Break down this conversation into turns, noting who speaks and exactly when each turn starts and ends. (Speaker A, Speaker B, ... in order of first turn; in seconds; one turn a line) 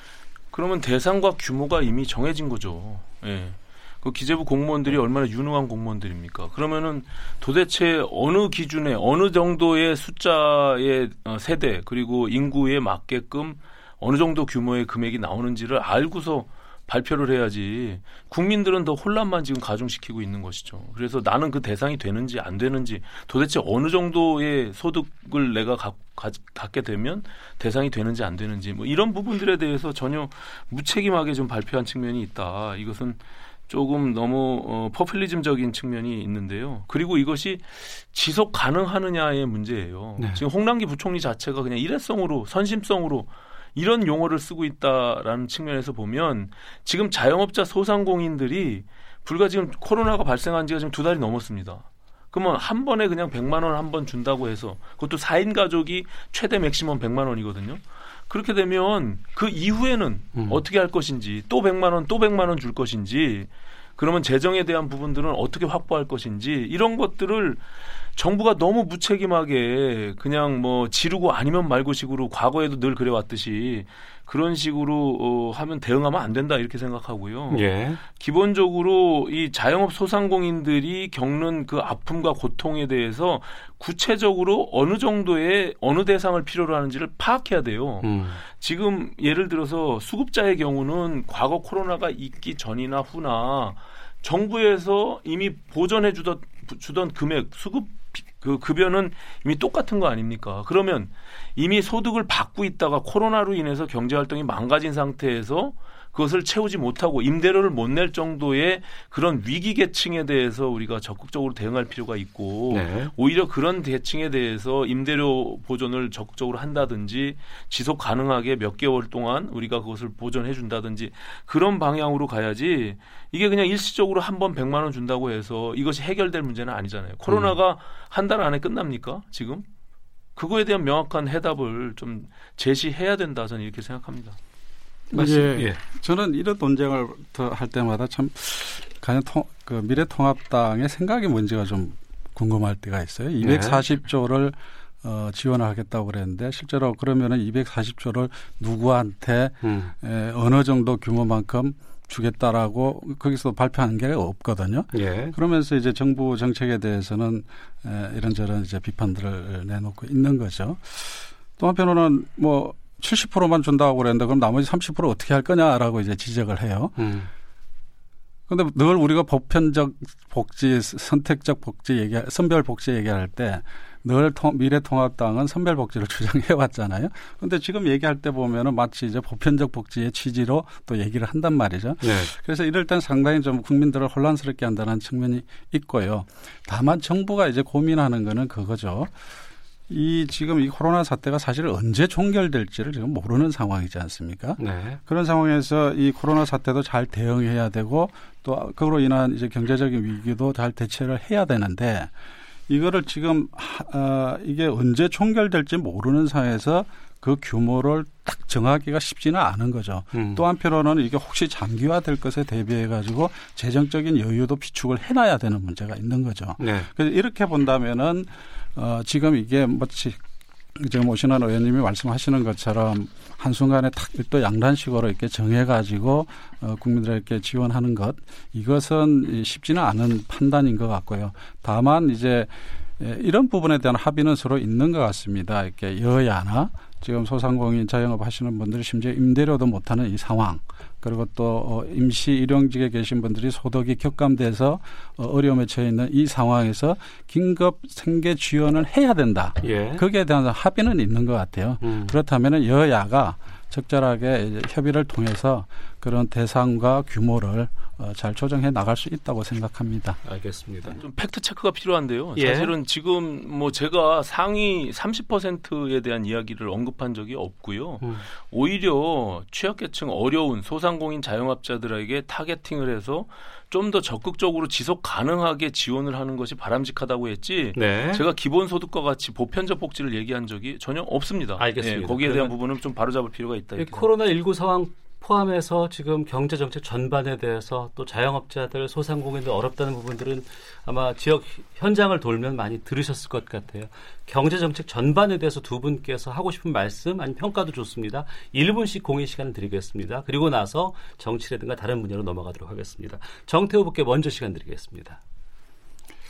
Speaker A: 0.5-67.6
Speaker B: 60.4-60.6
Speaker A: 68.2-129.6
Speaker B: 77.5-78.0
Speaker B: 88.0-88.4
Speaker B: 112.7-113.1
Speaker A: 130.4-134.4
Speaker C: 135.1-167.0
Speaker B: 135.1-135.8
Speaker B: 143.4-143.8
Speaker B: 149.6-149.9
Speaker B: 154.9-155.3
Speaker B: 167.0-167.3
Speaker C: 168.5-189.1
Speaker B: 182.0-182.3
Speaker C: 189.9-202.1
Speaker B: 194.6-195.0
Speaker C: 202.7-220.2
Speaker B: 210.1-210.4
Speaker B: 216.6-216.9
Speaker C: 220.7-260.2
Speaker B: 249.6-250.0
Speaker B: 251.8-252.1
Speaker B: 260.2-261.0
Speaker A: 261.0-284.0
Speaker B: 262.4-262.7
Speaker B: 277.8-278.2
Speaker B: 281.6-282.5
Speaker B: 283.8-305.1